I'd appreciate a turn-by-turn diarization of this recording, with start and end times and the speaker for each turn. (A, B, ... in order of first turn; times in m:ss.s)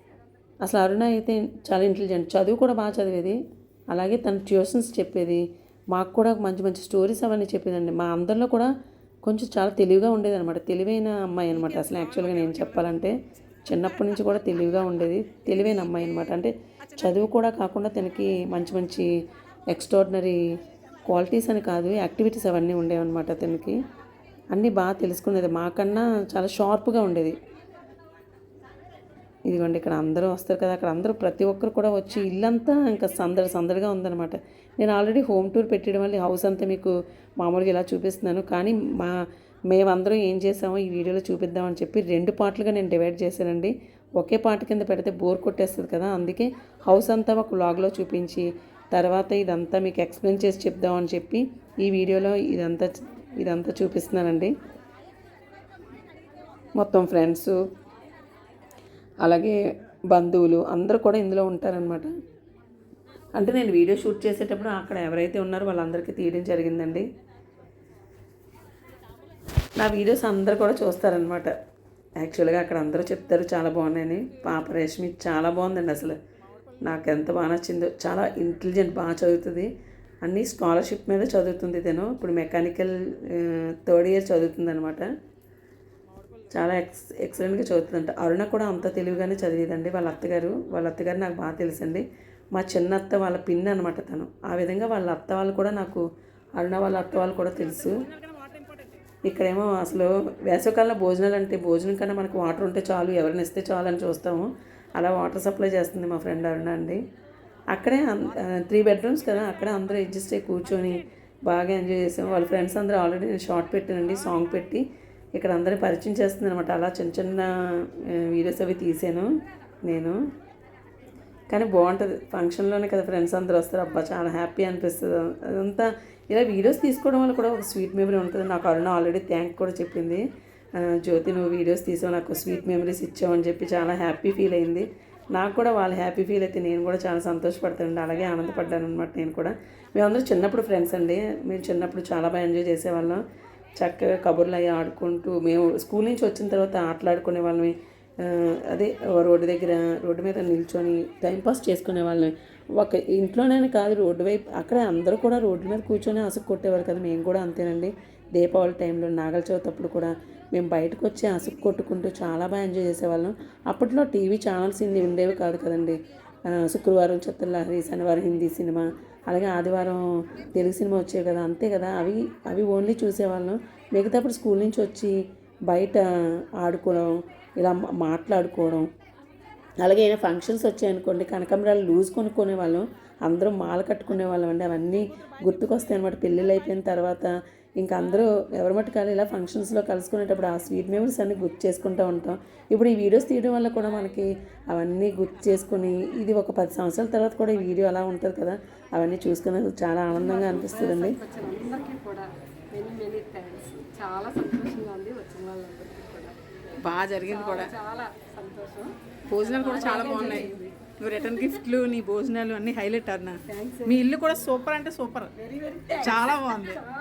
0:00.6-0:20.4 A
0:11.6-0:12.9 B
0:21.0-0:23.8 A
0:24.5-0:27.4 A
0:29.4-0:54.6 A
0:56.7-0:57.6 A
0:59.2-1:02.1 A
1:03.3-1:07.1 A
1:09.8-1:11.5 A
1:12.2-1:16.2 A
1:16.8-1:19.7 A
1:20.2-1:25.1 A
1:26.5-1:36.0 A
1:36.6-1:38.1 A
1:38.4-1:38.8 B
1:39.2-1:47.0 A
1:47.7-1:59.3 A
1:59.8-2:00.2 A
2:01.5-2:23.2 A
2:23.8-2:58.9 A
2:59.8-3:21.2 A
3:20.1-3:26.4 C
3:26.8-3:27.7 B
3:27.2-3:29.0 C
3:29.3-3:35.3 B
3:29.5-3:30.8 C
3:33.5-3:34.0 C
3:36.0-3:36.8 B